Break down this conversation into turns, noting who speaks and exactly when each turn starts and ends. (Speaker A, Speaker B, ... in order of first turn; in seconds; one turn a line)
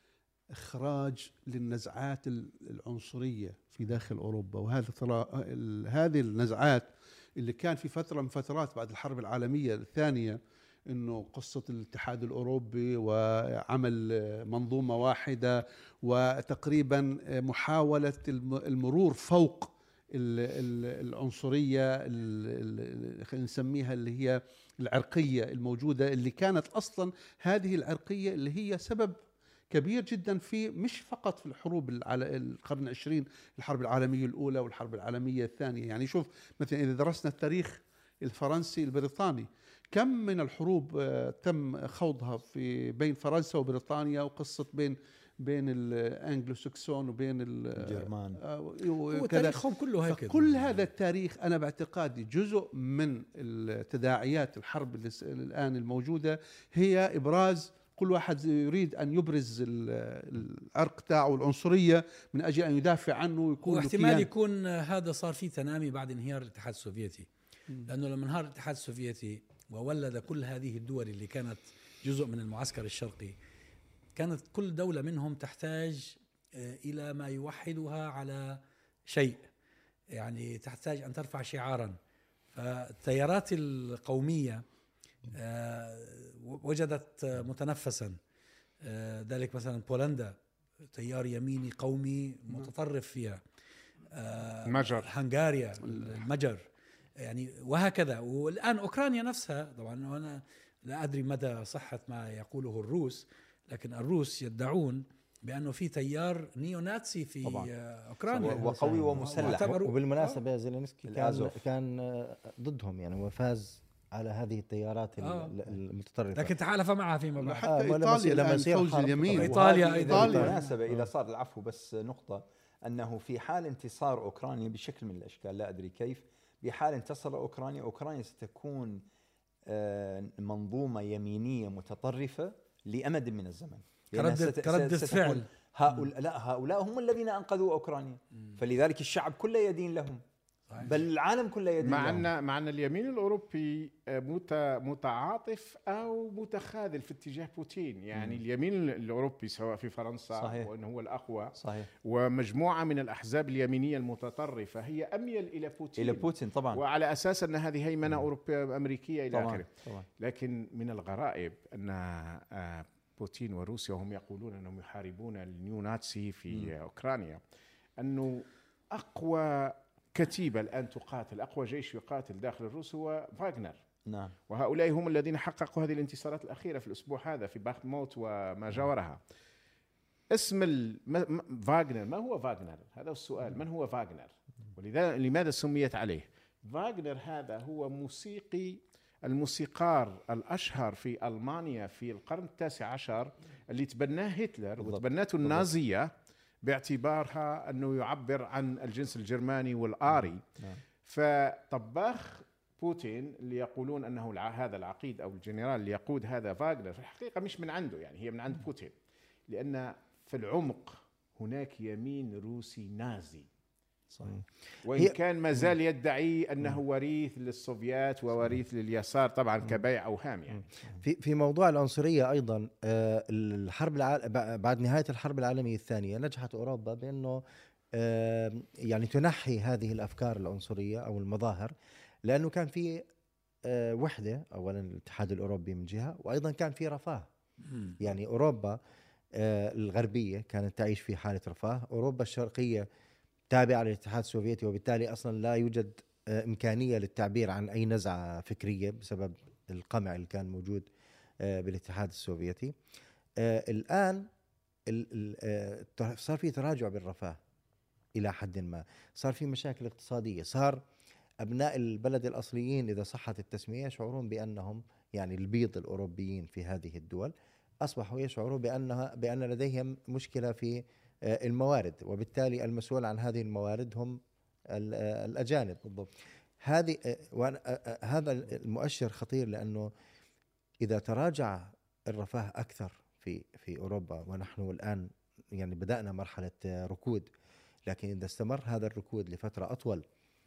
Speaker A: 0.5-29.2
Speaker A: 29.7-64.3
Speaker B: 47.8-48.4
Speaker C: 49.1-50.5
Speaker C: 63.7-67.3
Speaker C: 67.8-73.4
Speaker C: 74.2-79.5
Speaker C: 80.1-82.0
Speaker C: 82.5-84.7
Speaker C: 85.3-88.2
Speaker C: 88.8-90.4
Speaker C: 90.9-93.4
Speaker C: 94.1-96.7
Speaker D: 94.7-95.1
Speaker A: 95.9-96.2
Speaker C: 97.2-110.4
Speaker B: 107.4-107.7
Speaker B: 108.3-109.7
Speaker A: 108.6-109.2
Speaker E: 109.5-116.6
Speaker B: 111.1-111.6
Speaker C: 115.2-115.5
Speaker C: 116.3-117.7
Speaker A: 117.4-121.1
Speaker E: 117.7-119.5
Speaker C: 119.3-120.6
Speaker B: 119.4-129.0
Speaker E: 120.2-120.5
Speaker B: 129.7-140.2
Speaker C: 134.2-135.5
Speaker B: 140.8-142.3
Speaker D: 141.8-159.7
Speaker B: 148.2-148.4
Speaker B: 150.4-150.7
Speaker B: 151.6-151.9
Speaker B: 156.0-156.8
Speaker B: 159.3-160.1
Speaker D: 160.2-167.4
Speaker D: 168.0-173.8
Speaker B: 174.1-174.3
Speaker D: 174.5-179.2
Speaker D: 180.3-196.1
Speaker B: 194.8-195.7
Speaker D: 196.6-200.4
Speaker B: 200.1-200.8
Speaker D: 201.0-208.9
Speaker D: 209.5-213.5
Speaker B: 214.1-214.4
Speaker D: 214.8-220.7
Speaker E: 221.0-227.4
Speaker E: 227.9-231.7
Speaker E: 232.2-233.1
Speaker E: 233.7-237.3
Speaker C: 237.7-238.0
Speaker E: 238.0-238.8
Speaker E: 239.3-242.9
Speaker E: 243.5-250.9
Speaker E: 251.4-252.8
Speaker E: 253.4-254.3
Speaker E: 254.9-257.4
Speaker E: 258.2-260.8
Speaker E: 261.4-267.3
Speaker E: 267.8-274.2
Speaker E: 274.7-275.8
Speaker B: 275.9-276.1
Speaker E: 276.6-279.9
Speaker E: 280.8-287.3
Speaker E: 287.9-290.1